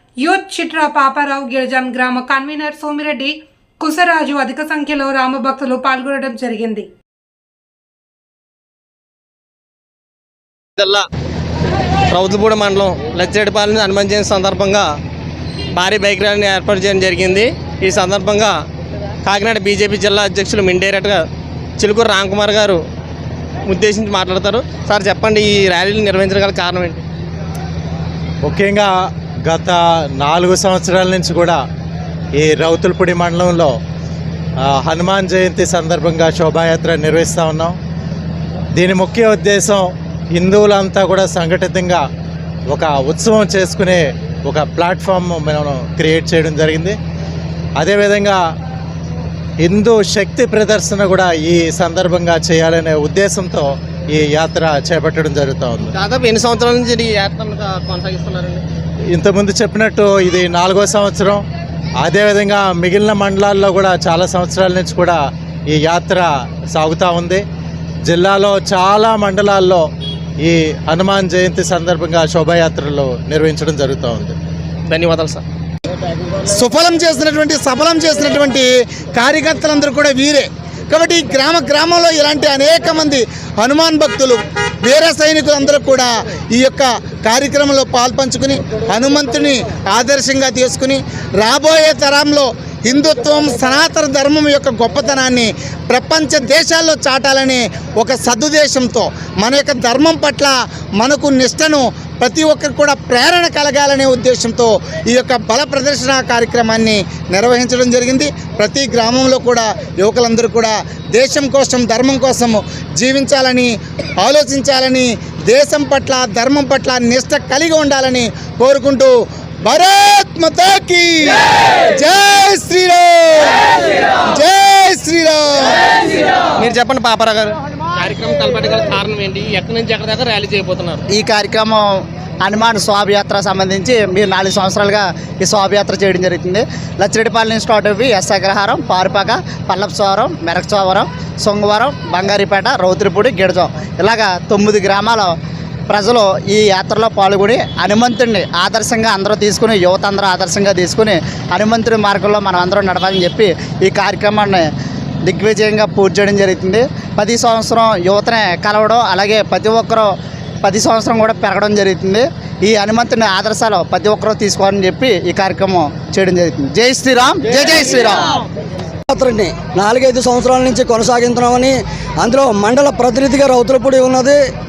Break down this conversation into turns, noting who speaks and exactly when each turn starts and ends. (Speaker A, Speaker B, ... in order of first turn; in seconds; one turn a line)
Speaker A: 0.2-6.9
Speaker B: 10.8-11.1
Speaker B: 12.1-14.9
Speaker B: 15.8-18.6
Speaker B: 19.2-21.2
Speaker B: 21.8-22.8
Speaker B: 23.6-27.0
Speaker C: 28.4-28.9
Speaker C: 29.5-31.6
Speaker C: 32.4-33.7
Speaker C: 34.6-37.7
Speaker C: 38.7-42.0
Speaker C: 42.7-47.0
Speaker C: 47.8-48.4
Speaker C: 49.6-55.9
Speaker B: 55.9-58.6
Speaker C: 59.1-61.4
Speaker C: 62.0-67.4
Speaker C: 68.1-69.8
Speaker C: 70.4-74.4
Speaker B: 74.9-75.4
Speaker D: 76.5-119.1
Speaker D: 119.7-125.9
Speaker B: 126.6-131.0
Speaker E: 131.1-145.3
Speaker E: 145.9-154.7
Speaker E: 155.2-168.3
Speaker F: 169.1-174.4